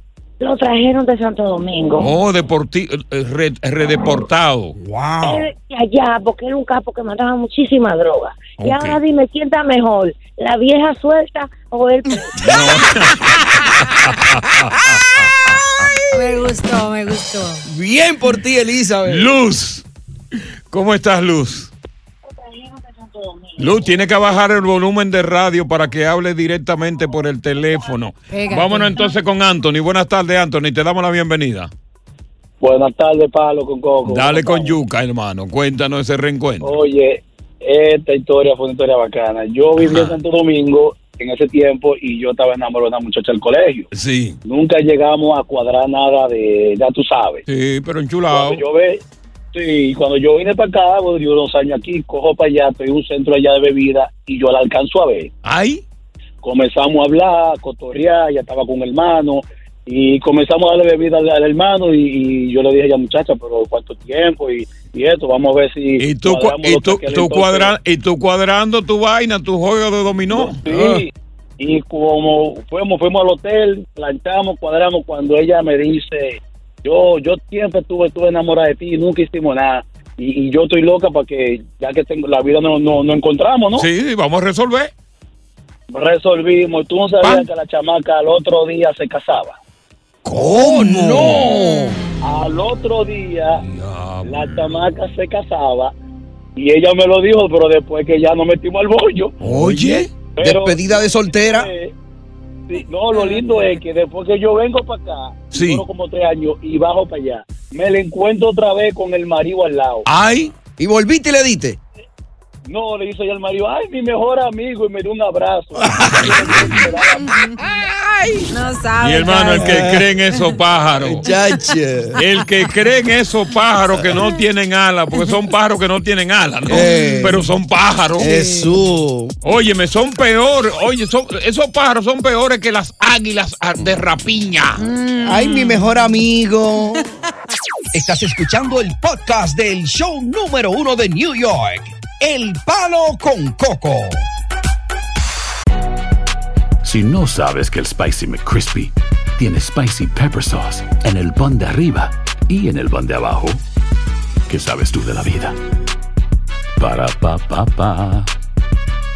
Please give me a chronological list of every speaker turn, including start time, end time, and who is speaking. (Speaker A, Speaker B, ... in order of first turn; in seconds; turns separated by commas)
Speaker A: 0.4-2.1, Speaker B: 2.0-4.8, Speaker C: 4.8-5.5, Speaker A: 5.2-12.6, Speaker B: 8.6-9.0, Speaker B: 12.3-15.6, Speaker D: 16.1-17.6, Speaker C: 17.6-19.3, Speaker B: 19.0-19.9, Speaker B: 20.7-21.7, Speaker A: 22.4-23.9, Speaker B: 23.6-31.7, Speaker D: 28.3-29.1, Speaker E: 32.6-34.8, Speaker B: 34.0-36.8, Speaker E: 36.6-43.9, Speaker B: 39.8-40.2, Speaker B: 43.9-44.4, Speaker E: 44.5-47.4, Speaker B: 47.5-48.6, Speaker E: 48.3-49.0, Speaker E: 49.5-55.3, Speaker B: 55.4-55.8, Speaker E: 56.4-67.7, Speaker B: 66.0-70.6, Speaker E: 70.3-83.9, Speaker C: 70.7-71.0, Speaker B: 83.8-84.9, Speaker E: 85.9-89.6, Speaker B: 87.2-87.5, Speaker B: 90.2-91.6, Speaker C: 90.3-92.0, Speaker D: 91.4-92.3, Speaker E: 92.2-93.6, Speaker B: 93.6-94.9, Speaker E: 94.2-95.9, Speaker E: 96.6-99.3, Speaker B: 99.4-100.1, Speaker C: 99.4-101.7, Speaker E: 100.4-101.9, Speaker E: 102.7-110.1, Speaker D: 102.8-103.8, Speaker B: 105.5-105.8, Speaker B: 110.0-110.5, Speaker C: 110.8-111.8, Speaker E: 112.6-117.3, Speaker C: 115.8-116.8, Speaker B: 116.0-116.9, Speaker D: 117.2-120.5, Speaker B: 119.0-121.3, Speaker C: 119.5-120.1, Speaker C: 121.0-122.2, Speaker D: 121.3-121.7, Speaker B: 122.2-128.4, Speaker C: 123.9-124.2, Speaker C: 126.7-127.5, Speaker D: 126.8-127.4, Speaker C: 128.2-129.3, Speaker D: 128.2-128.8, Speaker B: 129.4-134.9, Speaker D: 134.8-136.2, Speaker C: 135.2-137.1, Speaker C: 137.9-144.3, Speaker F: 146.8-153.6, Speaker F: 154.5-155.6, Speaker F: 156.8-158.3